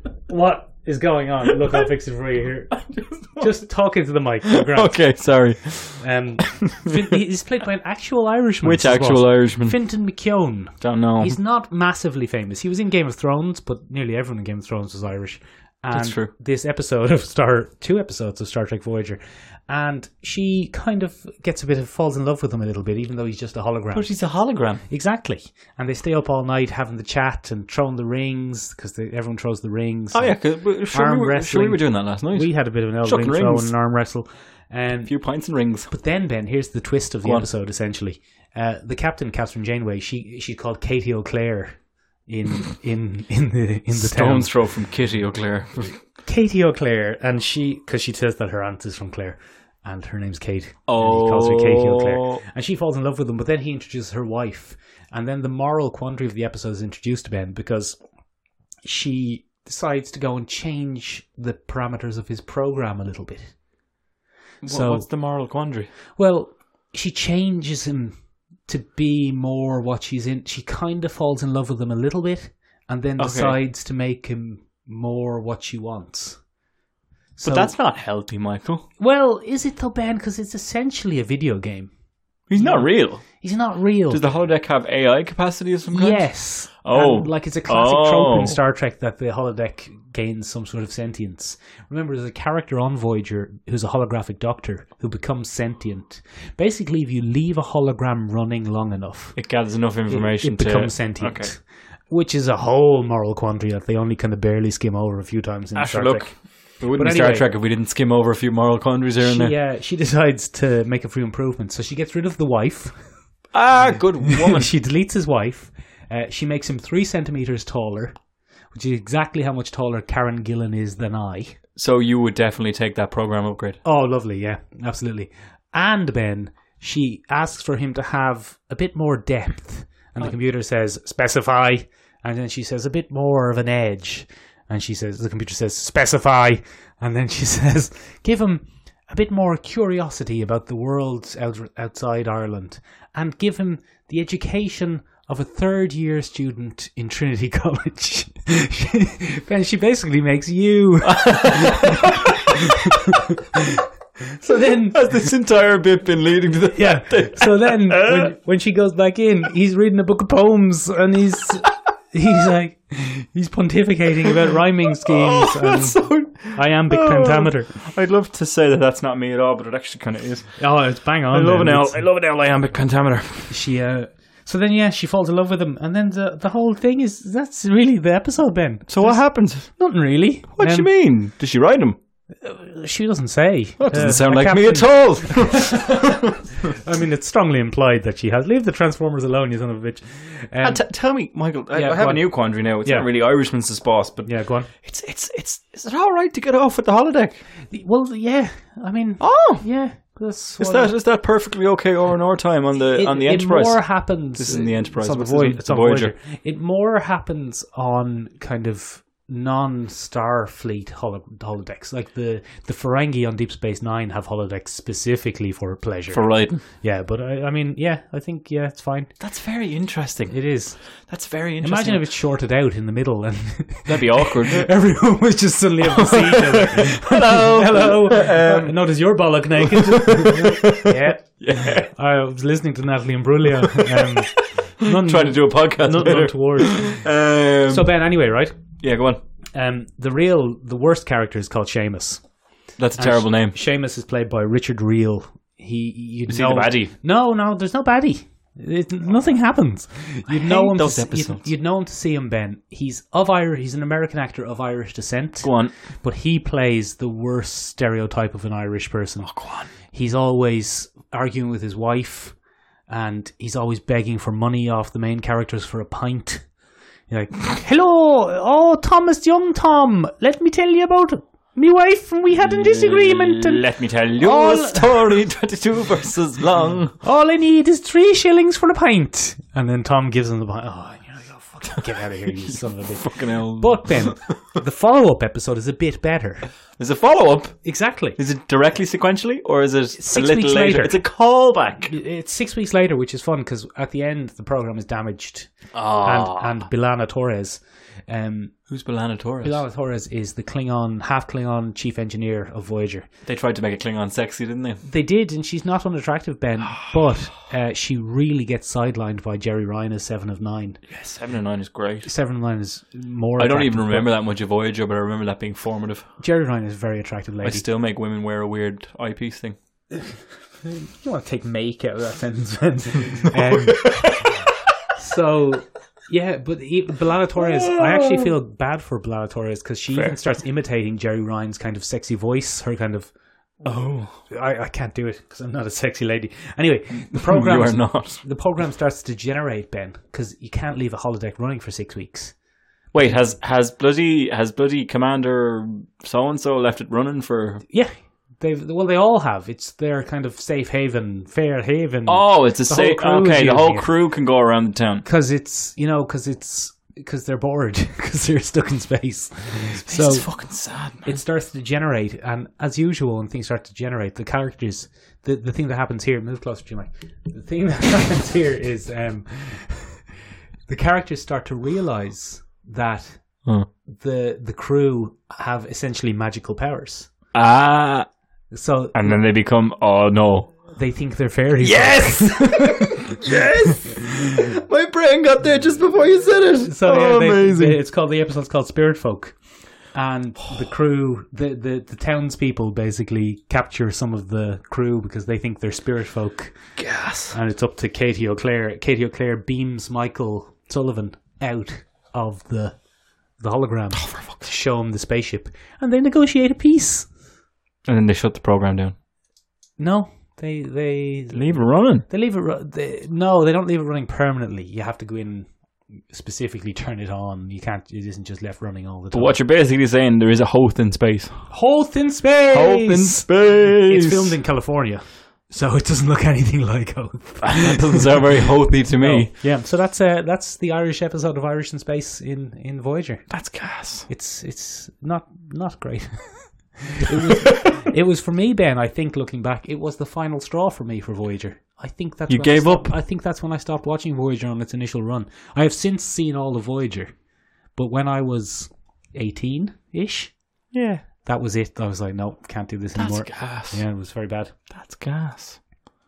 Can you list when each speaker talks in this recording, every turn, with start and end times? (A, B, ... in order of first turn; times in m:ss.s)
0:00.3-0:05.0 A
0:02.8-0:03.5 B
0:04.5-0:06.0 B
0:06.0-0:24.1 A
0:08.6-0:09.8 B
0:10.8-0:11.4 B
0:15.9-0:16.3 B
0:23.9-0:24.8 B
0:24.9-0:35.1 A
0:30.1-0:33.7 B
0:35.0-0:35.9 B
0:35.9-0:44.5 A
0:43.9-0:46.0 B
0:46.2-0:58.0 A
0:50.9-0:52.4 B
0:58.8-1:03.5 A
1:04.6-1:05.9 B
1:04.6-1:05.1 A
1:06.2-1:08.1 A
1:08.6-1:16.4 A
1:13.2-1:13.6 B
1:17.4-1:17.7 A
1:17.4-1:18.8 B
1:19.0-1:21.9 A
1:22.5-1:23.3 B
1:22.6-1:24.2 A
1:24.1-1:26.3 B
1:25.9-1:39.4 A
1:26.8-1:28.6 B
1:39.4-1:41.5 B
1:40.1-1:47.5 A
1:45.7-1:49.5 B
1:49.2-1:53.3 A
1:53.5-1:54.7 B
1:54.2-1:58.1 A
1:58.7-2:01.6 A
2:01.8-2:03.8 B
2:03.8-2:35.2 A
2:31.0-2:33.0 B
2:34.9-2:38.3 B
2:36.7-2:47.7 A
2:45.0-2:50.6 B
2:50.6-2:52.0 A
2:51.3-2:53.6 B
2:53.5-3:00.9 A
2:58.9-2:59.7 B
3:00.5-3:02.0 B
3:02.4-3:10.8 A
3:03.8-3:06.4 B
3:10.6-3:17.4 B
3:11.7-3:13.1 A
3:14.2-3:14.7 A
3:17.7-3:20.9 A
3:19.2-3:19.7 B
3:20.6-3:26.1 B
3:22.9-3:39.1 A
3:36.1-3:36.6 B
3:39.2-3:42.0 B
3:40.3-3:41.0 A
3:41.6-3:57.0 A
3:43.8-3:44.7 B
3:45.8-3:48.8 B
3:49.6-3:51.9 B
3:53.7-3:57.9 B
3:57.7-3:58.5 A
3:58.8-3:59.2 B
3:59.5-4:02.2 A
4:02.8-4:03.5 B
4:03.0-4:19.3 A
4:06.3-4:06.9 B
4:10.3-4:11.4 B
4:15.4-4:15.7 B
4:19.2-4:19.7 B
4:19.8-4:22.3 A
4:22.9-4:26.4 A
4:27.1-4:33.6 A
4:32.4-4:37.0 B
4:34.2-4:35.0 A
4:37.0-4:46.5 A
4:43.0-4:44.3 B
4:46.8-4:47.6 B
4:47.6-4:48.2 A
4:48.2-4:51.9 B
4:50.0-4:51.0 A
4:51.8-4:58.5 A
4:55.7-4:56.6 B
4:58.7-4:59.6 B
4:59.4-5:03.1 A
5:03.2-5:04.8 B
5:04.8-5:10.8 A
5:10.9-5:12.1 B
5:12.0-5:14.1 A
5:13.4-5:16.0 B
5:16.2-5:17.6 A
5:17.4-5:19.6 B
5:20.6-5:24.2 A
5:23.3-5:24.3 B
5:25.0-5:33.1 A
5:27.4-5:28.3 B
5:33.6-5:34.2 B
5:33.7-5:42.3 A
5:37.1-5:38.2 B
5:42.9-5:47.6 B
5:47.7-5:53.9 A
5:52.0-5:55.0 B
5:55.0-6:10.1 A
5:59.7-6:01.2 B
6:10.7-6:17.1 A
6:17.3-6:18.1 B
6:18.5-6:19.2 A
6:18.9-6:20.5 B
6:20.7-6:23.4 A
6:21.6-6:27.8 B
6:26.6-6:29.4 A
6:29.9-6:36.6 A
6:36.8-6:37.4 B
6:37.3-6:42.8 A
6:43.4-6:47.1 A
6:43.9-6:44.4 B
6:47.8-6:48.9 B
6:49.8-6:55.5 A
6:51.3-6:52.0 B
6:56.1-6:59.4 A
6:59.1-7:01.5 B
7:01.5-7:08.2 A
7:02.5-7:04.4 B
7:07.4-7:09.3 B
7:09.0-7:13.4 A
7:13.3-7:14.1 B
7:14.0-7:27.1 A
7:22.3-7:22.9 B
7:27.7-7:30.4 A
7:30.7-7:31.0 B
7:31.2-7:34.5 A
7:32.9-7:33.8 B
7:34.7-7:35.6 B